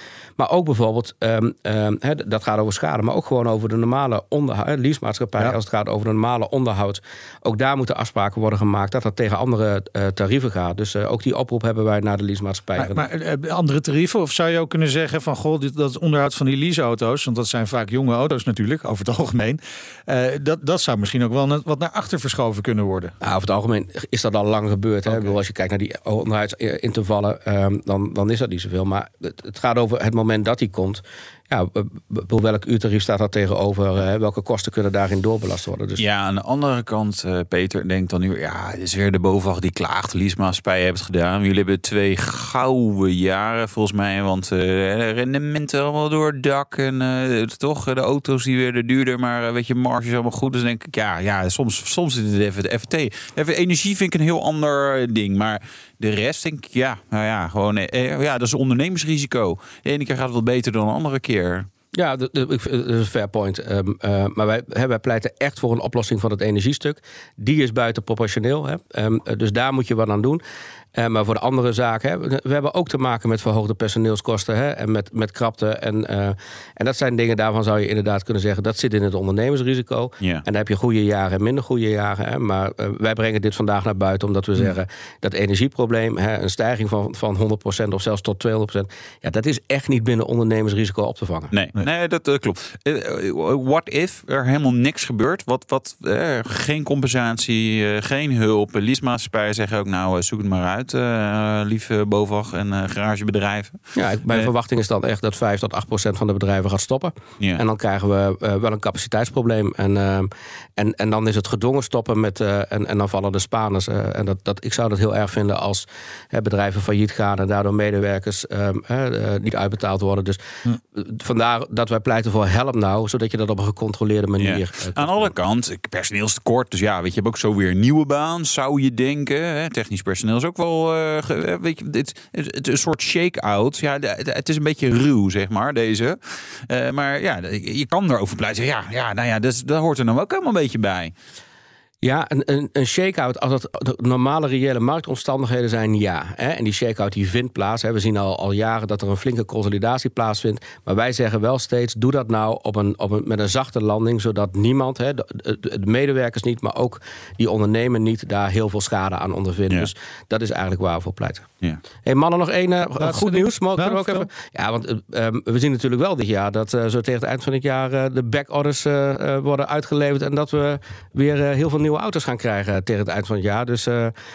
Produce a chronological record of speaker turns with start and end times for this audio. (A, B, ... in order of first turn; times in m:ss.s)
0:00.4-0:13.0 A
0:12.8-0:23.1 B
0:23.2-0:36.0 A
0:36.0-1:01.7 C
1:01.9-1:10.4 A
1:11.0-1:31.5 A
1:31.5-1:44.5 C
1:44.0-2:05.3 A
2:04.4-2:21.1 C
2:22.0-2:41.4 A
2:42.0-2:54.1 A
2:43.0-2:44.3 B